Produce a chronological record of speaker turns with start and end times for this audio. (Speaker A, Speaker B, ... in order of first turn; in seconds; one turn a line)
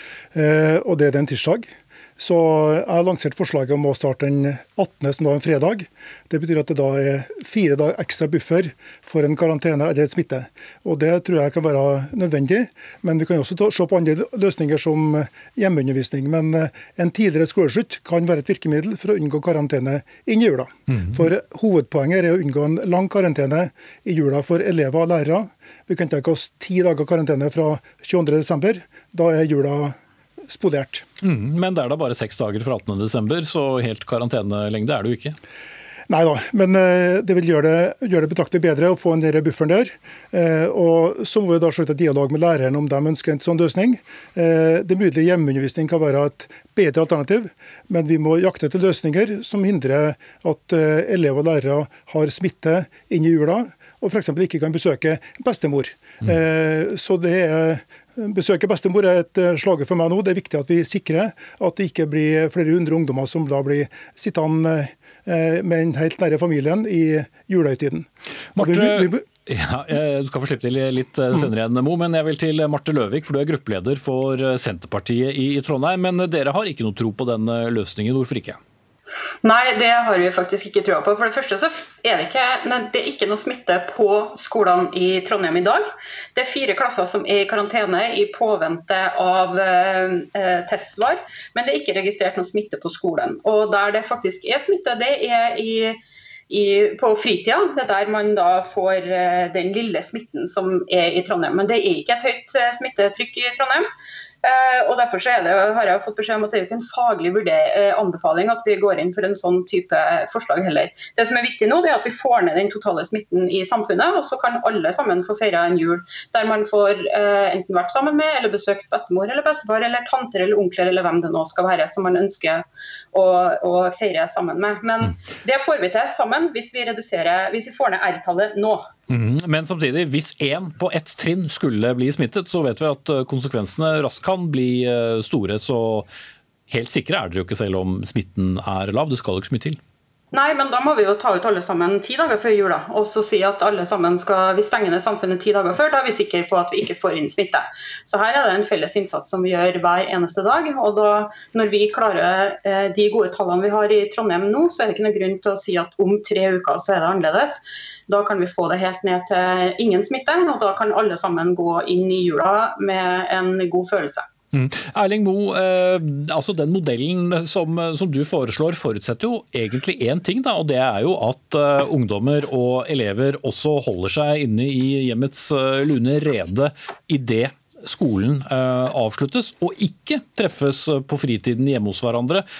Speaker A: 0.3-29.9
Speaker A: 30.5-31.1
Speaker B: 31.2-35.4
Speaker A: 36.1-69.2
Speaker B: 68.5-78.6
Speaker C: 79.4-85.8
Speaker C: 86.3-96.0
Speaker C: 96.5-103.9
Speaker C: 104.4-128.9
Speaker B: 129.1-136.1
Speaker B: 136.7-139.8
Speaker C: 140.3-157.6
Speaker C: 158.1-164.2
Speaker B: 164.5-182.4